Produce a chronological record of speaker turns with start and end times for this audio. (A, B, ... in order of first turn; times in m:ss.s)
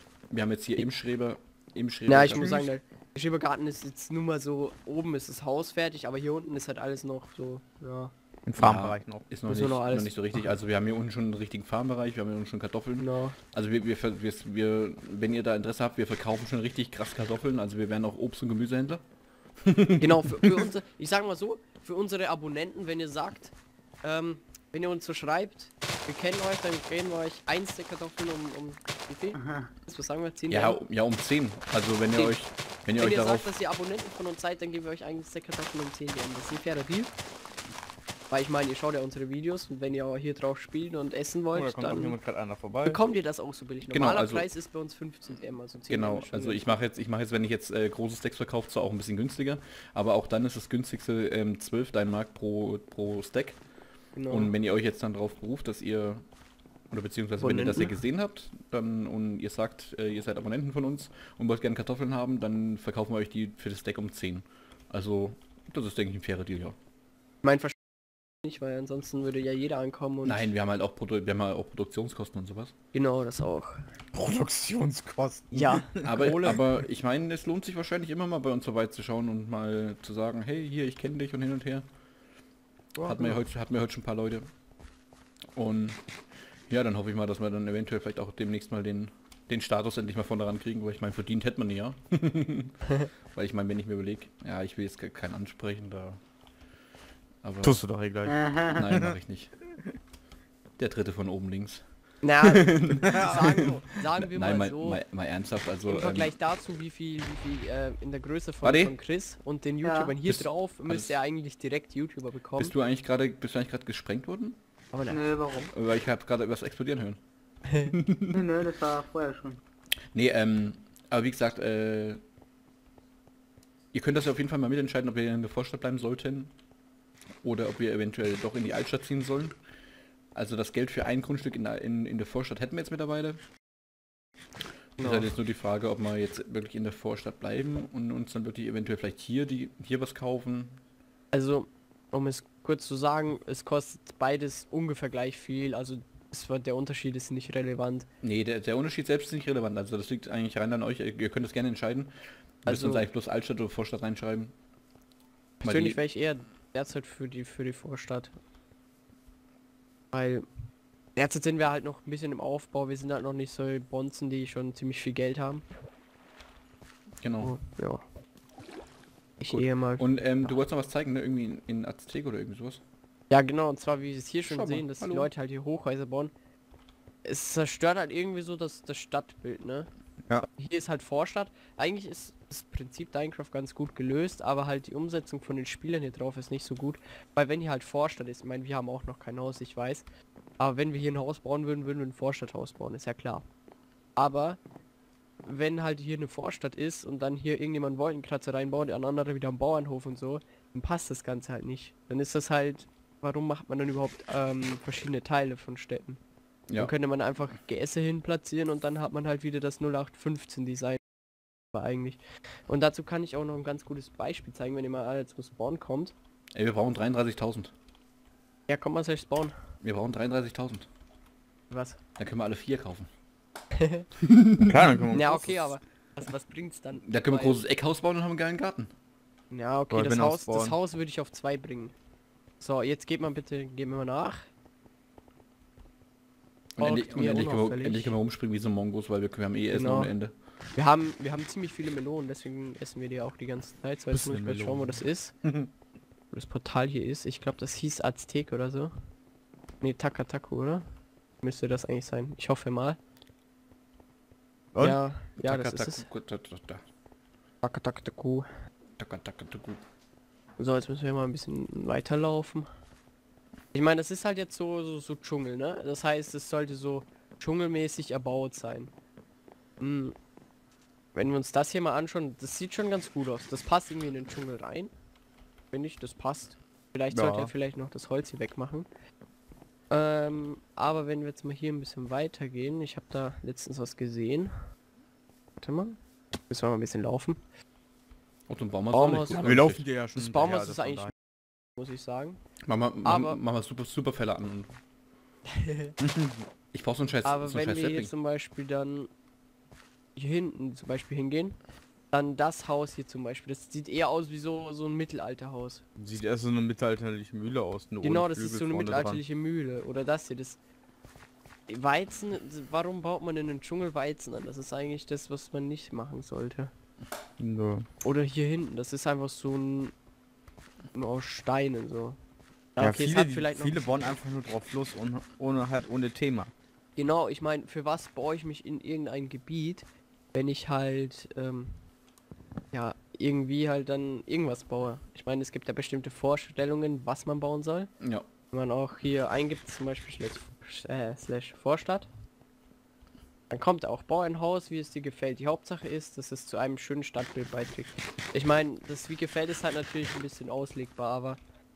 0:00.3-0:02.5 A
0:02.1-0:08.1 B
0:02.4-0:02.6 C
0:08.5-0:09.2 C
0:08.6-0:19.0 A
0:09.5-0:10.5 B
0:13.0-0:13.4 B
0:19.6-0:20.6 A
0:20.0-0:30.8 B
0:29.3-0:29.7 D
0:30.5-0:33.4 A
0:33.0-0:37.1 B
0:38.3-0:42.2 B
0:41.5-0:43.0 C
0:42.8-0:46.6 B
0:43.9-0:44.5 A
0:45.9-0:53.6 A
0:54.2-0:54.5 B
0:54.3-0:56.2 A
0:56.9-1:06.8 A
0:57.4-0:58.0 B
1:07.4-1:07.8 B
1:08.4-1:10.4 B
1:10.2-1:12.7 A
1:12.9-1:13.8 B
1:14.1-1:16.3 C
1:15.5-1:16.6 B
1:16.0-1:21.8 A
1:23.0-1:23.4 B
1:23.0-1:24.5 A
1:25.5-1:26.0 A
1:26.7-1:32.7 A
1:33.3-1:36.2 A
1:37.4-1:37.8 A
1:37.6-1:39.2 C
1:38.3-1:38.8 D
1:38.7-1:39.5 A
1:40.8-1:41.8 A
1:42.2-1:45.0 B
1:42.4-1:46.3 A
1:43.1-1:43.4 C
1:45.8-1:52.7 B
1:48.6-1:48.9 A
1:49.8-1:50.1 D
1:50.2-1:51.2 A
1:52.6-1:54.6 A
1:54.9-1:55.2 B
1:55.1-1:55.7 D
1:55.7-1:57.2 A
1:57.8-1:58.4 A
1:58.3-1:59.6 D
2:00.1-2:02.2 A
2:03.9-2:06.5 A
2:07.4-2:09.5 A
2:10.3-2:13.4 A
2:15.0-2:20.8 A
2:15.0-2:15.3 B
2:21.3-2:28.0 B
2:28.2-2:34.5 A
2:32.7-2:33.1 B
2:35.6-2:36.0 A
2:35.6-2:38.3 B
2:40.1-2:40.4 B
2:41.2-2:45.6 B
2:47.2-2:47.5 A
2:47.4-2:48.0 B
2:49.4-2:50.5 B
2:49.5-2:52.8 A
2:53.3-2:56.3 B
2:54.5-2:55.3 A
2:57.2-2:59.9 B
3:00.4-3:10.0 B
3:10.6-3:13.4 B
3:14.2-3:14.6 B
3:15.5-3:26.2 B
3:26.8-3:31.0 B
3:31.7-3:36.1 B
3:36.5-3:37.7 A
3:38.7-3:39.5 B
3:39.8-3:40.9 A
3:41.7-3:42.0 B
3:42.2-3:43.1 A
3:43.8-3:44.0 B
3:44.2-3:45.0 A
3:44.7-3:45.6 C
3:45.1-3:47.6 B
3:47.0-3:48.9 A
3:49.5-3:51.9 B
3:49.9-3:50.8 C
3:52.6-3:54.4 B
3:56.8-4:00.3 A
3:56.8-3:58.2 B
3:59.7-4:00.2 B
4:00.8-4:05.3 B
4:04.1-4:05.7 C
4:06.3-4:08.9 B
4:09.8-4:10.8 B
4:11.4-4:13.0 B
4:14.8-4:16.0 B
4:15.4-4:16.8 A
4:17.6-4:18.4 B
4:19.0-4:19.8 A
4:20.6-4:22.7 B
4:23.7-4:28.9 B
4:29.8-4:30.1 B
4:31.1-4:34.9 B
4:35.7-4:38.9 B
4:37.1-4:37.5 C
4:39.9-4:44.5 B
4:45.6-4:46.0 B
4:46.5-4:47.4 B
4:48.5-4:49.8 A
4:48.9-4:49.6 B
4:49.4-4:51.1 C
4:50.1-4:51.1 B
4:51.8-4:52.4 B
4:52.6-4:54.8 A
4:53.0-4:53.4 B
4:55.5-4:55.9 B
4:56.0-4:58.1 A
4:57.2-4:59.1 B
5:00.2-5:01.6 B
5:02.1-5:05.8 B
5:06.0-5:09.2 C
5:08.0-5:10.6 B
5:11.7-5:16.7 B
5:17.4-5:17.9 C
5:18.0-5:19.9 B
5:20.9-5:22.2 B
5:22.8-5:23.9 B
5:22.8-5:26.5 C
5:27.0-5:31.8 B
5:32.7-5:37.9 B
5:38.5-5:42.1 B
5:43.5-5:51.4 B